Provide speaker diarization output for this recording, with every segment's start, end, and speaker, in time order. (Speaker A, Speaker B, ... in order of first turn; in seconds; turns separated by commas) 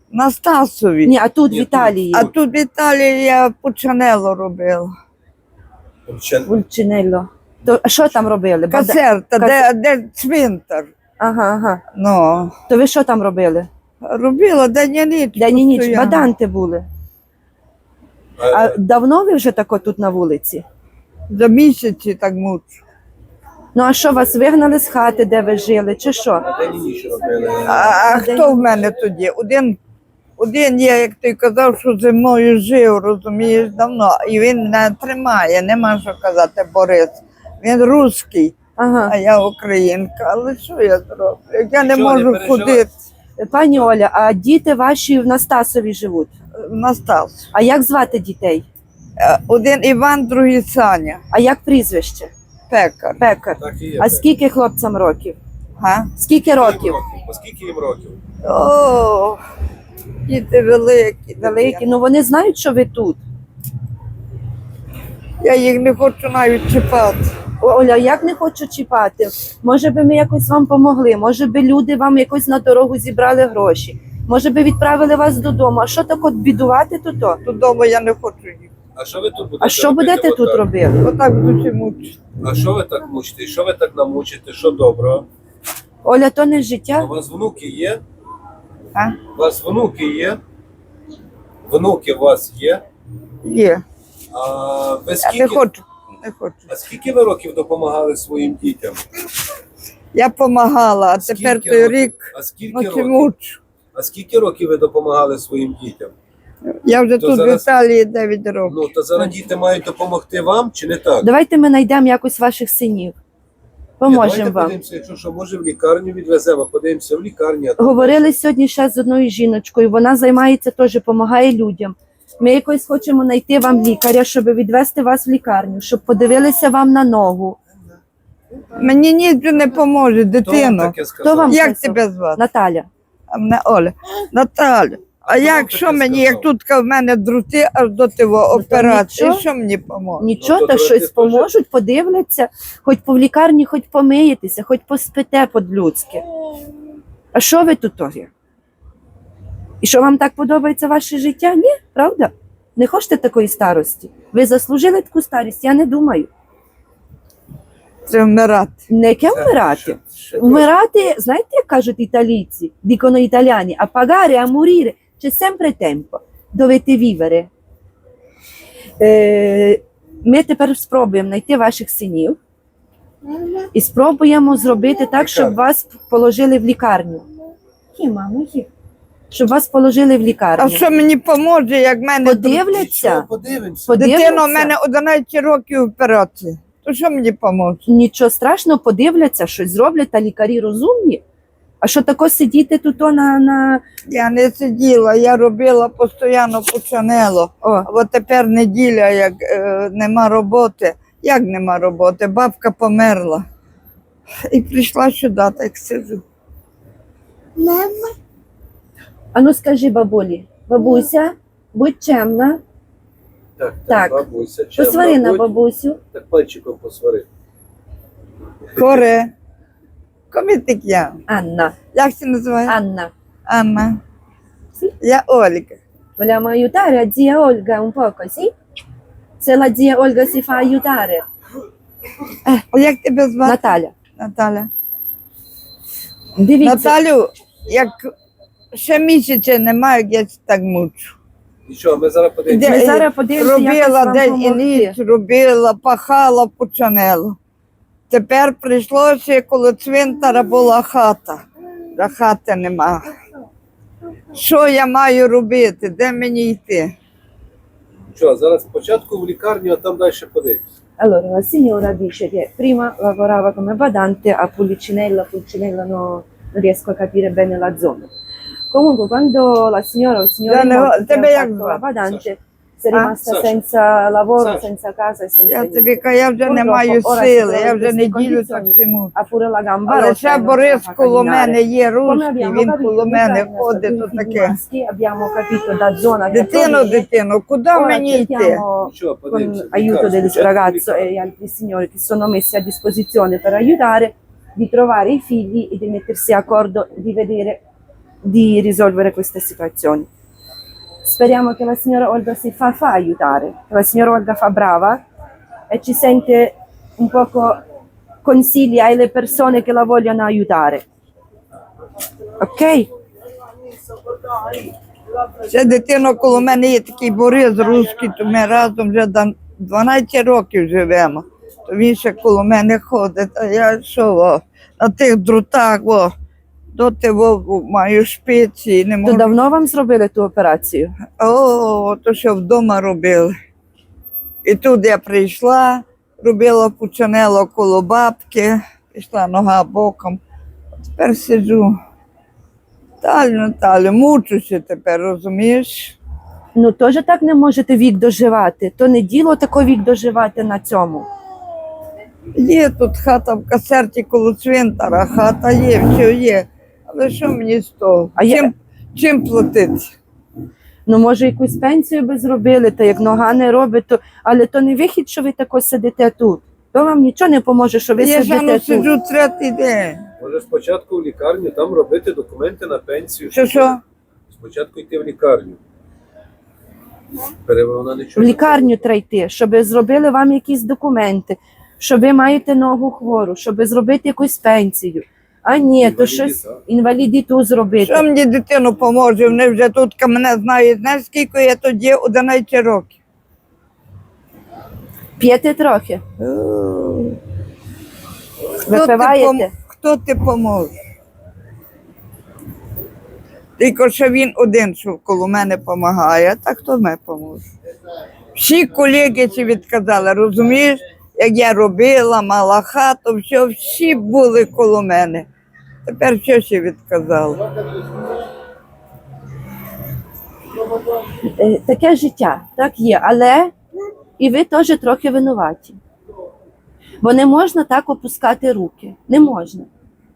Speaker A: 0.1-1.1, Speaker B: 1.0-2.3, Speaker C: 1.5-2.0, Speaker A: 2.1-4.9, Speaker C: 6.1-6.5, Speaker B: 6.5-9.6, Speaker A: 8.7-10.9, Speaker B: 11.2-11.8, Speaker A: 11.9-12.5, Speaker B: 12.7-13.7, Speaker A: 14.0-16.3, Speaker B: 15.3-16.9, Speaker C: 18.4-18.8, Speaker B: 18.4-20.6, Speaker A: 21.3-22.8, Speaker B: 23.8-26.5, Speaker C: 26.5-28.0, Speaker A: 27.7-29.8, Speaker B: 27.8-28.7, Speaker A: 30.4-38.5, Speaker B: 38.8-39.1, Speaker A: 39.1-42.9, Speaker C: 41.8-42.9, Speaker B: 43.4-46.3, Speaker A: 46.5-47.5, Speaker B: 47.5-48.7, Speaker A: 49.2-51.2, Speaker B: 51.3-52.3, Speaker A: 52.7-53.2, Speaker B: 53.2-55.4, Speaker C: 53.6-54.2, Speaker A: 55.8-56.1, Speaker B: 56.2-57.0, Speaker C: 56.5-58.2, Speaker A: 58.4-59.4, Speaker A: 60.3-61.8, Speaker B: 61.4-63.2, Speaker A: 65.4-67.3, Speaker B: 67.6-77.4, Speaker A: 77.4-78.7, Speaker C: 79.0-80.7, Speaker B: 79.6-81.0, Speaker A: 81.0-82.2, Speaker C: 82.4-85.2, Speaker B: 86.0-87.1, Speaker C: 87.0-88.0, Speaker C: 89.3-90.4, Speaker C: 91.7-92.8, Speaker A: 93.4-93.8, Speaker C: 94.3-95.6, Speaker A: 95.2-96.7, Speaker C: 96.7-99.0, Speaker A: 100.1-103.6, Speaker C: 101.2-103.3, Speaker C: 103.9-106.1, Speaker A: 106.7-108.9, Speaker C: 107.2-107.7, Speaker C: 108.7-111.3, Speaker B: 111.2-113.2, Speaker B: 114.0-114.7, Speaker C: 114.0-118.2, Speaker B: 117.8-127.6, Speaker A: 128.8-130.9, Speaker C: 130.4-131.6, Speaker B: 131.2-132.9, Speaker A: 131.5-132.4, Speaker A: 133.3-140.3, Speaker C: 135.3-136.5, Speaker B: 138.5-139.4, Speaker B: 140.2-146.2, Speaker C: 140.4-141.5, Speaker B: 147.3-148.3, Speaker B: 149.8-156.3, Speaker A: 158.1-158.8, Speaker B: 158.9-167.5, Speaker C: 159.3-160.7, Speaker B: 169.0-172.4, Speaker B: 173.7-177.3, Speaker C: 175.2-175.6, Speaker B: 177.9-178.7, Speaker B: 179.3-180.8, Speaker A: 180.6-182.7, Speaker B: 182.2-183.3, Speaker C: 182.6-184.0, Speaker B: 183.9-184.7, Speaker A: 183.9-187.8, Speaker B: 187.9-191.2, Speaker B: 191.8-193.8, Speaker A: 194.1-203.4, Speaker B: 197.6-197.9, Speaker A: 204.5-206.2, Speaker B: 207.6-208.1, Speaker B: 209.3-212.6, Speaker C: 213.6-215.5, Speaker B: 213.9-214.2, Speaker B: 214.8-216.0, Speaker C: 216.1-217.2, Speaker C: 218.8-219.0, Speaker A: 218.8-219.3, Speaker A: 220.3-221.2, Speaker B: 221.3-221.8, Speaker A: 221.9-222.8, Speaker B: 222.7-223.1, Speaker A: 223.5-224.0, Speaker A: 225.0-225.8, Speaker B: 226.2-228.5, Speaker B: 229.4-231.2, Speaker A: 232.7-234.7, Speaker B: 233.4-233.9, Speaker B: 236.4-236.9, Speaker A: 236.6-238.1, Speaker A: 238.7-241.2, Speaker C: 241.7-242.7, Speaker A: 242.5-247.4, Speaker B: 242.6-244.9, Speaker A: 248.1-251.4, Speaker A: 251.9-253.1, Speaker A: 254.3-256.9, Speaker C: 258.1-260.6, Speaker B: 261.0-268.1, Speaker B: 268.7-287.1, Speaker A: 270.5-271.8, Speaker C: 273.2-273.6, Speaker C: 274.4-274.7, Speaker A: 275.5-279.2, Speaker A: 279.9-284.6, Speaker A: 286.3-288.6, Speaker B: 287.7-297.6, Speaker C: 288.8-291.1, Speaker B: 298.2-300.1, Speaker B: 301.0-305.0, Speaker B: 305.7-307.6, Speaker B: 308.2-310.8, Speaker B: 312.4-312.9, Speaker A: 315.5-326.1, Speaker A: 326.7-329.4, Speaker B: 329.0-331.0, Speaker A: 331.2-333.3, Speaker A: 334.4-340.2, Speaker A: 340.9-341.7, Speaker A: 343.0-346.0, Speaker B: 346.6-351.1, Speaker A: 352.4-359.9, Speaker B: 358.2-358.5, Speaker B: 360.9-368.9, Speaker A: 368.0-370.0, Speaker C: 370.2-373.8, Speaker A: 373.3-373.8, Speaker C: 374.3-375.6, Speaker C: 377.4-378.8, Speaker B: 378.2-388.1, Speaker C: 385.8-386.6, Speaker A: 387.8-392.9, Speaker B: 395.2-396.0, Speaker A: 396.2-397.2, Speaker B: 398.6-399.5, Speaker A: 398.7-400.7, Speaker A: 403.6-407.4, Speaker A: 408.4-415.3, Speaker A: 415.9-417.4, Speaker B: 421.2-423.5, Speaker B: 424.2-425.8, Speaker B: 427.0-429.7